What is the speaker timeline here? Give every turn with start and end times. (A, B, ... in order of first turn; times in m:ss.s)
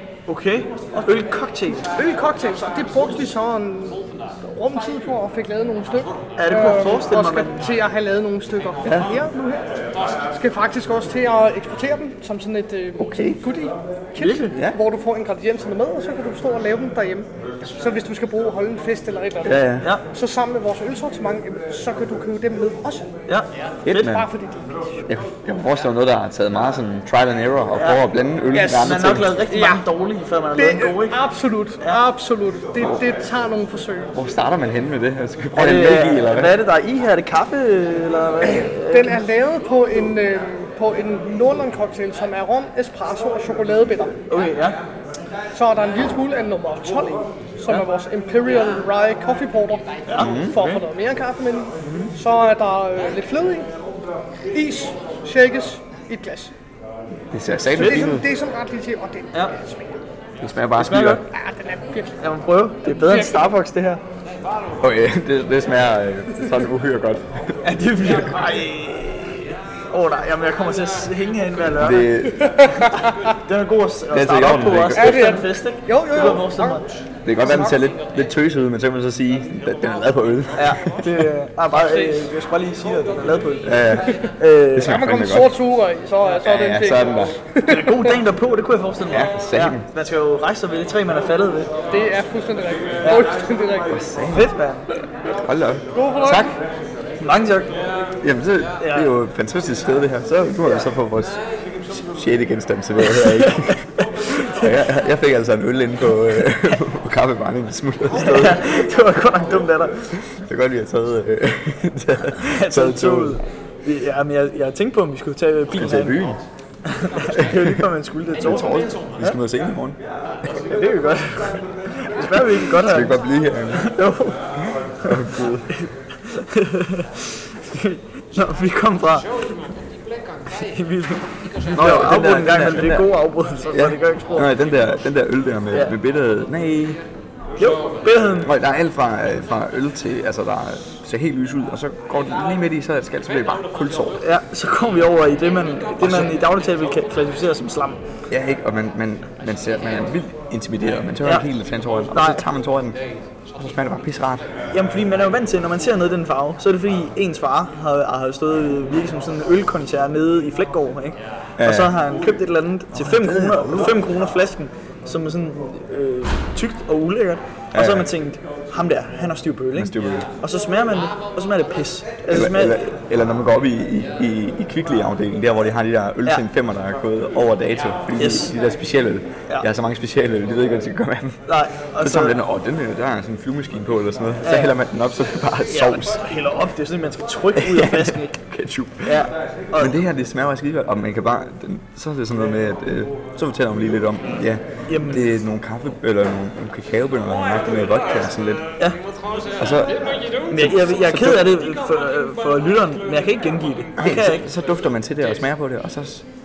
0:00.3-0:01.9 A
0:01.8-0:23.1 B
0:06.4-0:07.6 A
0:08.8-0:09.1 C
0:13.0-0:13.4 C
0:14.2-0:14.6 A
0:19.4-0:19.9 C
0:19.8-0:20.0 A
0:23.3-0:24.1 A
0:23.8-0:24.3 C
0:23.9-0:25.0 B
0:25.1-0:29.4 C
0:27.8-0:31.2 A
0:29.5-0:29.8 B
0:30.6-0:34.1 B
0:34.1-0:36.5 C
0:35.5-0:39.2 A
0:38.8-0:44.2 B
0:44.3-0:44.8 A
0:45.5-0:53.7 B
0:50.1-0:50.8 A
0:50.2-0:50.6 C
0:51.8-0:52.1 A
0:54.5-0:56.5 B
0:57.3-0:58.2 C
0:57.7-1:00.0 B
1:00.4-1:01.2 C
1:00.8-1:01.2 A
1:01.3-1:02.2 B
1:02.2-1:04.0 A
1:02.9-1:03.5 B
1:04.8-1:07.6 C
1:07.6-1:12.1 A
1:11.8-1:12.6 C
1:12.3-1:13.2 B
1:12.9-1:16.8 A
1:14.1-1:15.3 C
1:14.9-1:16.9 B
1:17.2-1:21.2 C
1:17.4-1:17.8 B
1:20.6-1:25.0 A
1:21.7-1:22.2 B
1:23.6-1:24.1 C
1:24.7-1:25.5 C
1:24.8-1:28.2 B
1:26.4-1:27.3 C
1:27.6-1:31.7 A
1:29.1-1:29.9 C
1:31.9-1:34.0 B
1:33.0-1:33.3 A
1:33.9-1:34.5 C
1:34.3-1:34.9 A
1:35.4-1:36.5 C
1:35.9-1:36.5 B
1:37.2-1:37.7 A
1:38.2-1:48.8 C
1:38.8-1:39.1 A
1:43.0-1:44.7 A
1:48.1-1:50.1 A
1:50.1-1:53.4 C
1:52.3-1:56.2 A
1:55.7-1:56.4 C
1:56.8-1:59.4 A
1:57.2-1:57.8 C
1:58.4-2:00.0 C
2:00.5-2:03.2 A
2:02.6-2:03.9 C
2:03.7-2:04.4 A
2:05.0-2:05.7 C
2:05.7-2:09.4 A
2:10.5-2:14.5 A
2:11.7-2:13.1 C
2:13.7-2:17.0 C
2:17.6-2:18.5 A
2:18.4-2:24.2 C
2:24.2-2:28.0 A
2:26.0-2:26.3 C
2:28.3-2:33.0 C
2:32.1-2:32.4 A
2:33.5-2:34.5 C
2:34.7-2:52.8 A
2:41.6-2:42.0 C
2:42.9-2:44.0 C
2:47.7-2:48.1 C
2:49.7-2:50.3 C
2:52.3-3:01.4 C
2:58.2-2:58.5 A
3:01.4-3:02.4 A
3:02.0-3:06.2 C
3:04.4-3:04.8 A
3:05.7-3:08.4 A
3:07.6-3:18.7 C
3:09.0-3:10.0 A
3:14.9-3:15.3 A
3:19.6-3:21.5 C
3:20.5-3:24.5 A
3:24.0-3:26.2 C